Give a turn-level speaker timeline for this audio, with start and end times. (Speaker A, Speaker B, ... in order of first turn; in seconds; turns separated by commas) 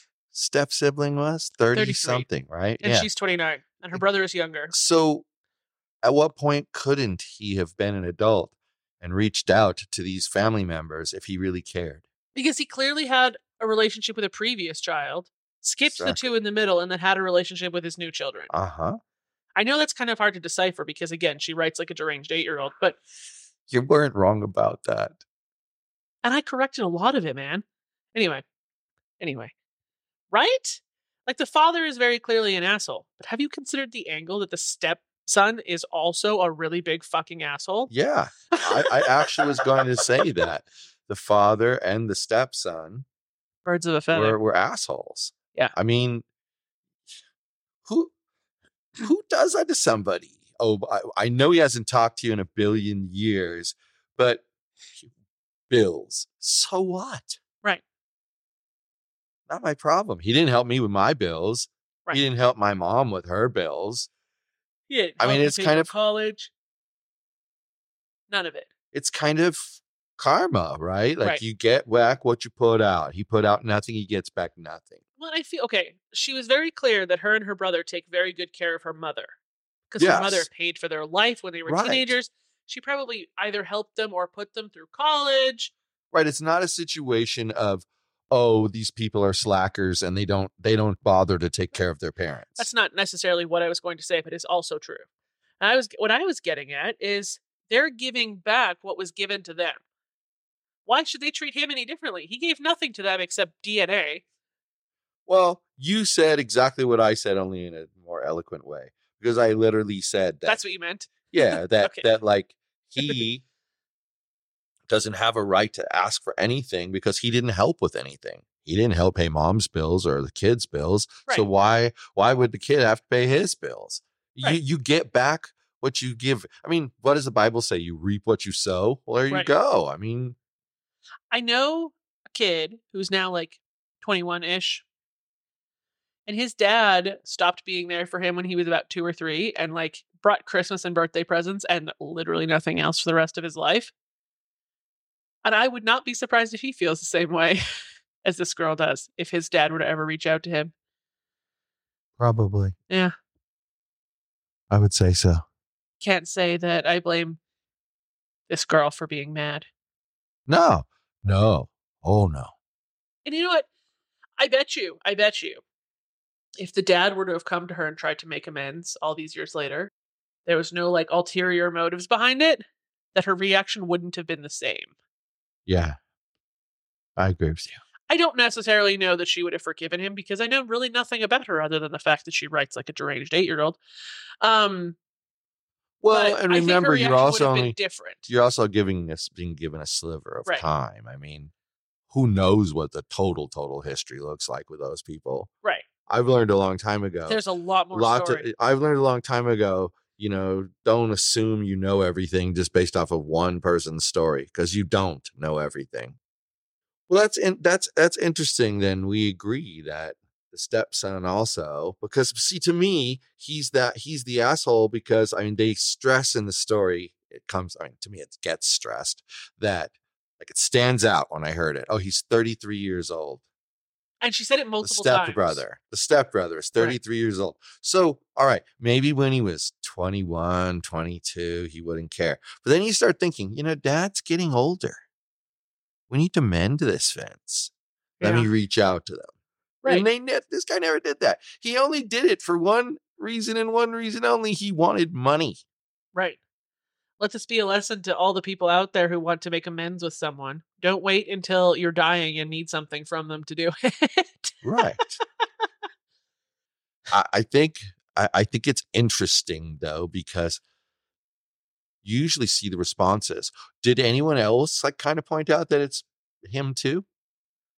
Speaker A: 0.3-3.1, Speaker B: 1.7-2.3, Speaker B: 2.8-4.7, Speaker A: 4.7-5.2, Speaker A: 6.0-12.0, Speaker B: 12.3-18.5, Speaker A: 15.9-16.2, Speaker A: 18.5-19.0, Speaker B: 19.6-23.0, Speaker A: 23.7-25.2, Speaker B: 26.2-28.4, Speaker B: 29.2-29.5, Speaker B: 30.3-37.9, Speaker A: 37.9-43.0, Speaker B: 38.5-39.6, Speaker B: 43.6-44.4, Speaker A: 44.1-46.2, Speaker A: 47.9-48.1, Speaker A: 49.0-54.4, Speaker A: 55.7-57.4, Speaker A: 59.5-64.1, Speaker B: 64.9-66.5, Speaker A: 65.2-65.9, Speaker B: 68.3-68.7, Speaker A: 68.9-75.0, Speaker B: 75.2-79.4, Speaker B: 79.9-85.7, Speaker A: 80.0-80.5, Speaker A: 81.7-82.1, Speaker A: 86.1-92.7, Speaker B: 92.5-95.1, Speaker B: 95.6-99.8, Speaker B: 100.8-104.2, Speaker A: 105.3-110.6, Speaker B: 110.4-112.0, Speaker A: 111.3-113.4, Speaker B: 113.0-113.2, Speaker A: 114.9-130.3, Speaker B: 131.3-134.8, Speaker B: 136.2-143.9, Speaker B: 145.4-147.6, Speaker B: 148.2-150.7, Speaker A: 152.2-152.7, Speaker A: 154.7-155.4, Speaker B: 156.0-157.4, Speaker B: 158.5-159.7, Speaker A: 160.5-162.5, Speaker B: 163.2-163.7, Speaker B: 164.4-165.6, Speaker B: 166.6-169.9, Speaker B: 170.4-174.9, Speaker A: 175.7-176.0, Speaker A: 177.2-177.8, Speaker B: 178.1-183.8, Speaker B: 184.4-185.0, Speaker A: 186.0-191.5, Speaker B: 186.1-188.3, Speaker A: 192.1-195.5, Speaker A: 196.1-197.4, Speaker B: 197.3-198.4, Speaker A: 197.9-206.2, Speaker A: 207.1-223.4, Speaker B: 224.2-225.6, Speaker A: 224.8-235.0, Speaker A: 236.1-239.3, Speaker B: 238.2-238.5, Speaker A: 239.8-245.6, Speaker B: 246.1-246.4, Speaker B: 247.2-254.5, Speaker A: 254.6-255.2, Speaker A: 257.1-260.6, Speaker A: 262.0-267.0